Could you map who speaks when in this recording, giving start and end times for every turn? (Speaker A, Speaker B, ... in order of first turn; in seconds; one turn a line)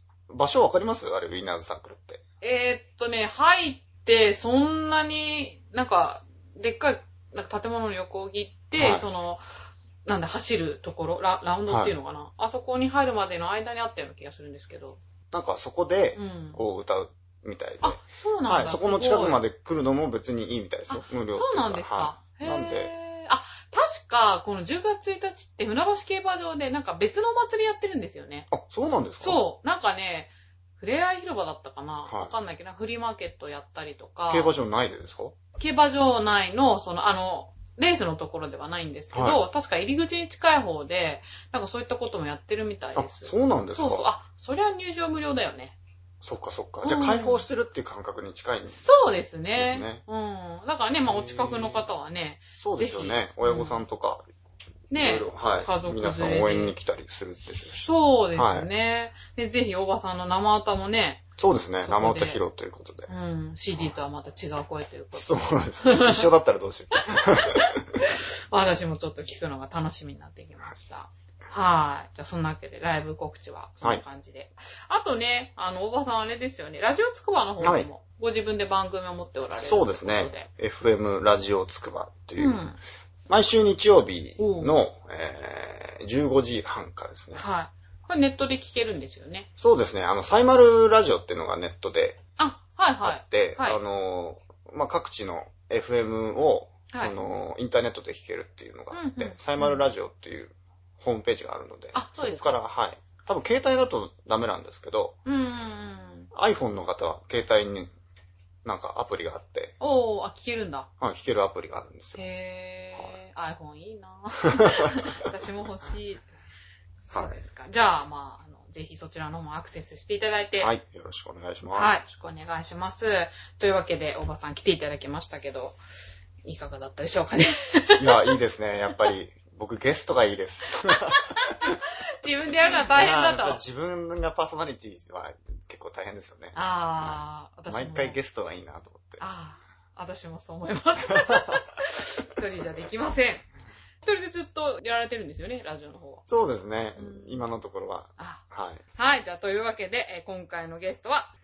Speaker A: 0.3-2.2
Speaker B: 2.4-9.4
Speaker A: 8.8-9.1
Speaker B: 10.1-15.0
Speaker A: 11.7-11.9
Speaker A: 15.3-22.9
Speaker B: 16.2-16.6
Speaker B: 17.8-19.4
Speaker B: 20.9-28.5
Speaker A: 28.5-29.4
Speaker B: 29.2-34.5
Speaker A: 34.3-35.4
Speaker B: 35.6-45.8
Speaker A: 39.1-39.4
Speaker A: 43.0-44.1
Speaker A: 46.2-48.9
Speaker B: 46.8-47.4
Speaker B: 48.7-53.8
Speaker A: 49.6-50.0
Speaker A: 51.1-51.9
Speaker A: 52.6-54.2
Speaker B: 54.9-56.8
Speaker A: 54.9-58.7
Speaker B: 57.8-61.3
Speaker A: 61.4-63.1
Speaker B: 61.8-62.4
Speaker B: 63.1-66.3
Speaker A: 65.1-68.0
Speaker B: 67.0-80.5
Speaker A: 77.6-77.9
Speaker A: 79.6-82.6
Speaker B: 82.4-82.8
Speaker A: 83.3-87.4
Speaker B: 84.4-84.8
Speaker B: 87.3-89.5
Speaker A: 89.6-92.2
Speaker B: 92.4-93.8
Speaker A: 93.0-105.2
Speaker B: 96.9-97.2
Speaker B: 98.9-99.8
Speaker B: 101.9-102.6
Speaker B: 105.2-106.3
Speaker A: 106.3-107.9
Speaker A: 108.6-109.8
Speaker B: 109.8-110.9
Speaker A: 111.0-112.2
Speaker B: 112.2-116.3
Speaker A: 117.1-117.4
Speaker B: 117.1-120.7
Speaker A: 120.6-122.1
Speaker B: 121.7-125.8
Speaker B: 126.4-128.4
Speaker A: 128.0-131.8
Speaker B: 130.9-133.6
Speaker A: 132.9-139.2
Speaker B: 136.5-138.2
Speaker B: 139.2-143.5
Speaker A: 141.1-141.6
Speaker B: 144.0-146.2
Speaker A: 146.3-148.8
Speaker B: 147.0-147.5
Speaker B: 148.9-151.3